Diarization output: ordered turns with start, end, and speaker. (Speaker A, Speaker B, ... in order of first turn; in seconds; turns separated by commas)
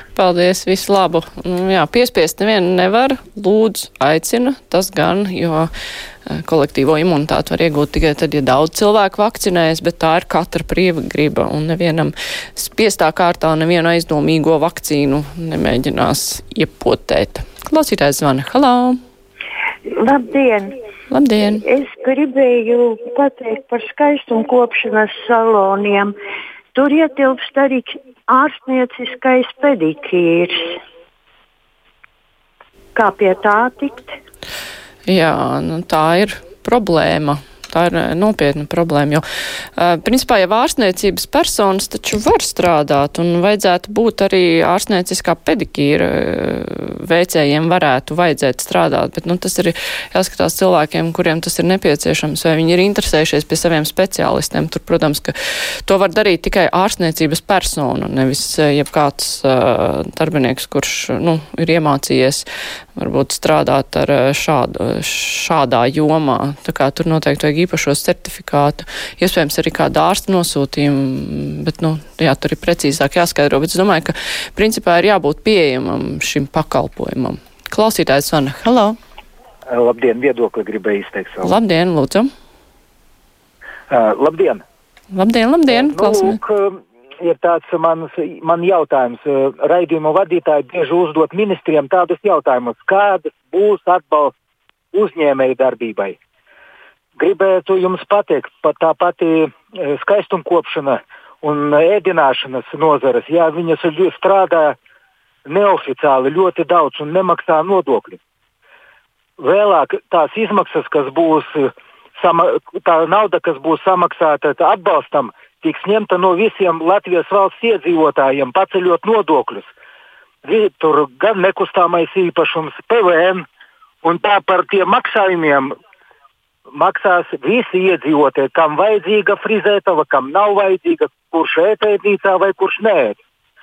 Speaker A: 0.1-5.7, Speaker A: 6.3-19.0, Speaker B: 19.8-20.8, Speaker A: 21.1-21.6, Speaker B: 21.6-26.2, Speaker B: 26.7-30.8, Speaker B: 32.9-34.2, Speaker A: 35.1-39.2, Speaker A: 39.8-79.0, Speaker C: 79.7-81.5, Speaker A: 81.4-82.3, Speaker C: 83.9-84.6, Speaker A: 85.1-86.4, Speaker C: 85.7-94.3, Speaker C: 94.9-96.2, Speaker C: 97.2-104.8, Speaker C: 105.5-108.2, Speaker C: 109.4-119.7, Speaker C: 120.5-123.5, Speaker C: 124.0-125.8, Speaker C: 126.7-133.2